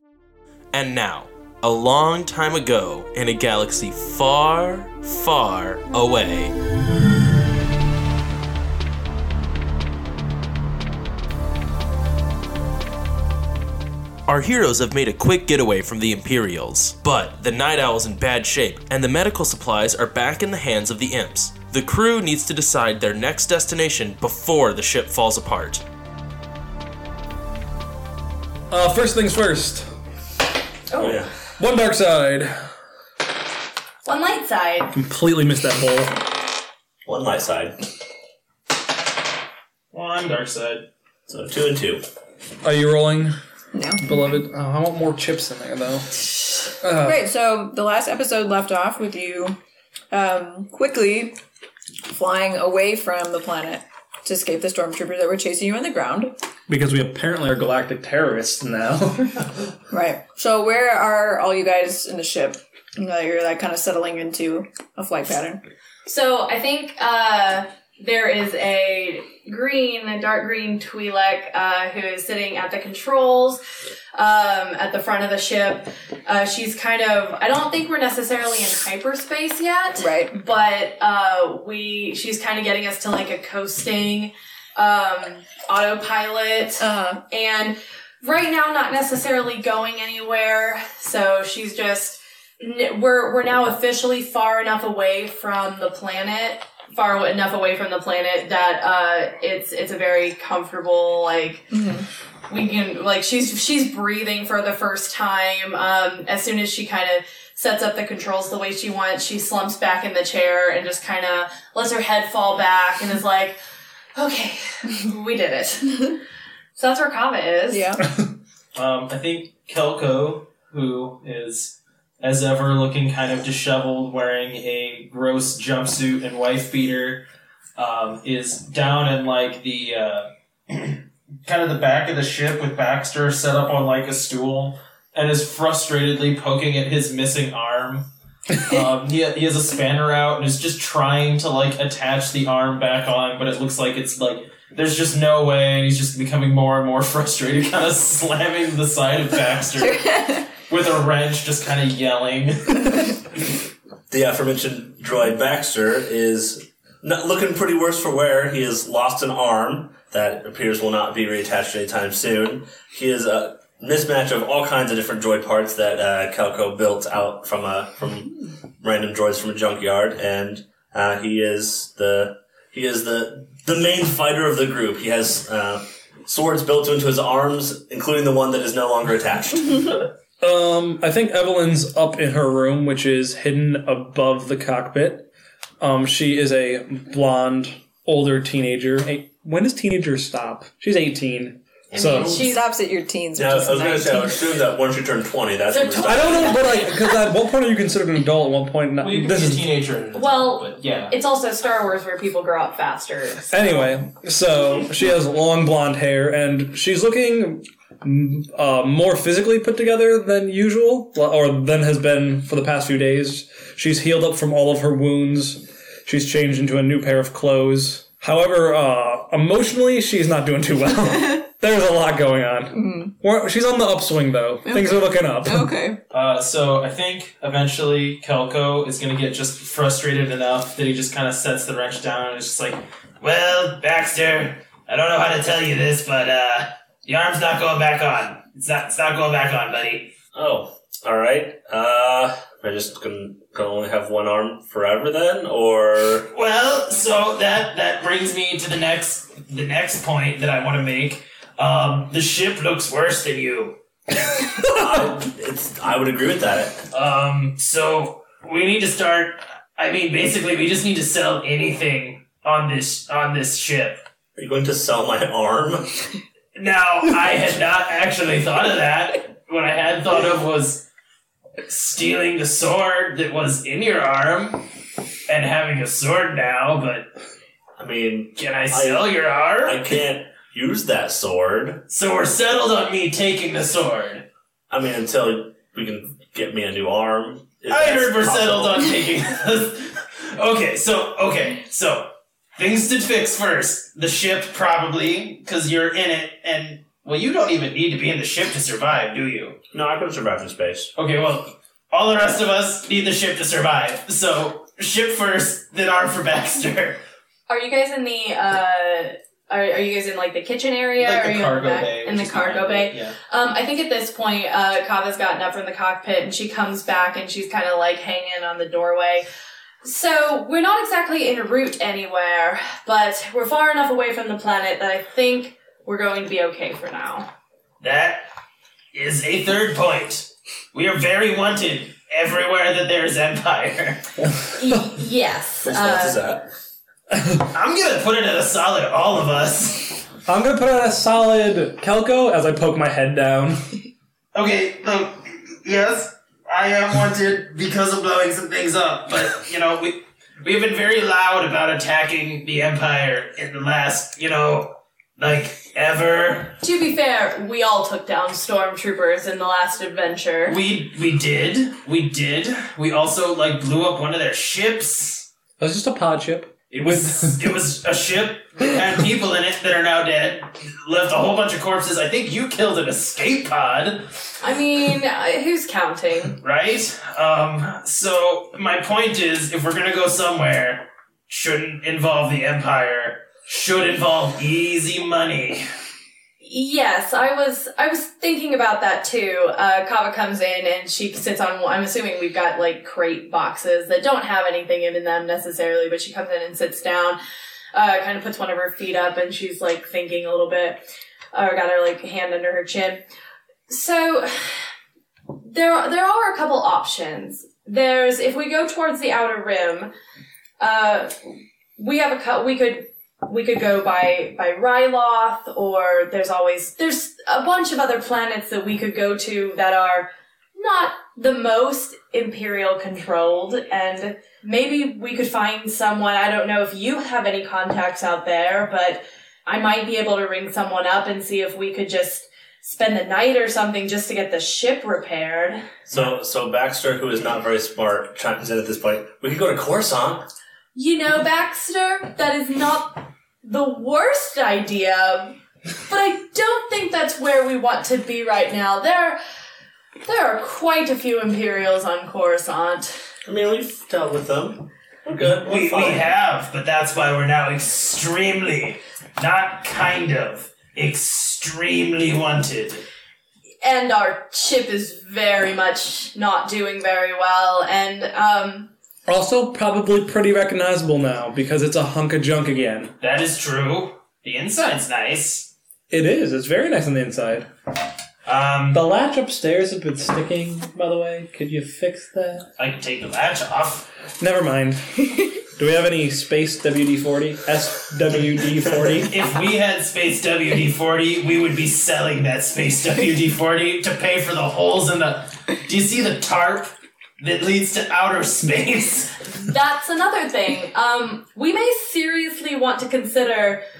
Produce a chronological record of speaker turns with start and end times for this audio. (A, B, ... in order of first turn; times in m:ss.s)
0:00.7-0:06.5 A
0:14.3-0:25.8 A
0:28.7-0:29.9 B
0:30.9-0:31.2 C
0:31.0-0:31.3 D
0:31.6-0:32.6 B
0:34.0-0:34.9 C
0:34.9-0:36.1 B
0:37.0-0:37.8 D
0:39.9-0:40.9 E
0:41.3-0:42.0 D
0:42.6-0:43.4 B
0:43.7-0:44.0 F
0:44.0-0:46.2 B
0:46.8-0:47.2 B
0:46.9-0:49.6 F
0:50.1-0:51.4 F
0:52.1-0:56.3 F
0:56.7-0:59.7 B
0:59.9-1:05.6 F
1:06.0-1:13.6 C
1:14.1-1:41.7 C
1:20.0-1:20.4 F
1:26.8-1:27.2 F
1:41.7-1:42.0 F
1:42.5-1:53.6 C
1:54.1-1:56.1 C
1:56.8-1:58.0 C
1:57.7-1:58.0 F
1:58.7-2:07.2 E
2:07.8-2:18.1 E
2:18.6-2:30.0 E
2:29.8-2:30.5 F
2:30.7-2:33.1 E
2:34.1-3:00.0 D
3:00.4-3:05.3 B
3:05.8-3:12.4 B
3:11.9-3:12.7 C
3:12.3-3:14.4 F
3:13.3-3:16.6 D
3:15.7-3:16.9 C
3:16.0-3:19.6 B
3:19.0-3:21.1 E
3:20.1-3:23.8 C
3:23.5-3:45.7 B
3:42.7-3:43.1 F
3:44.6-3:46.0 F
3:46.1-4:00.1 E
4:00.3-4:06.3 D
4:06.3-4:13.8 E
4:14.5-4:16.8 D
4:16.9-4:24.0 E
4:24.4-4:25.9 D
4:26.5-4:30.8 E
4:31.7-4:34.6 E
4:35.3-4:37.1 E
4:37.8-4:39.1 D
4:38.4-4:39.8 E
4:39.6-4:41.8 D
4:41.9-4:44.2 E
4:44.7-4:49.0 D
4:47.7-4:59.6 E
4:59.7-5:00.9 D
5:01.0-5:07.0 E
5:07.5-5:19.2 C
5:11.0-5:13.2 E
5:19.8-5:27.3 C
5:27.8-5:28.3 E
5:28.9-5:34.0 E
5:34.5-5:36.2 C
5:35.6-5:36.5 D
5:37.5-5:40.0 E
5:40.3-5:43.7 B
5:44.3-5:56.6 E
5:56.6-6:00.6 C
6:00.5-6:05.3 E
6:05.6-6:07.4 B
6:06.7-6:14.0 E
6:14.4-6:16.4 C
6:16.4-6:25.6 E
6:26.4-6:37.2 C
6:37.7-6:40.8 C
6:41.3-6:43.0 C
6:43.7-6:44.5 C
6:45.4-6:49.9 C
6:50.6-6:51.1 C
6:51.8-7:15.6 C
7:15.9-7:20.2 D
7:20.7-7:25.4 C
7:25.9-7:29.2 C
7:30.0-7:32.9 C
7:33.2-7:36.1 D
7:35.2-7:42.8 E
7:43.6-7:48.7 C
7:49.1-7:52.9 B
7:53.0-7:55.5 E
7:55.9-7:57.5 B
7:58.2-7:58.8 E
7:58.7-8:02.5 B
8:02.6-8:03.9 E
8:04.2-8:09.1 B
8:09.1-8:19.2 E
8:19.4-8:23.6 C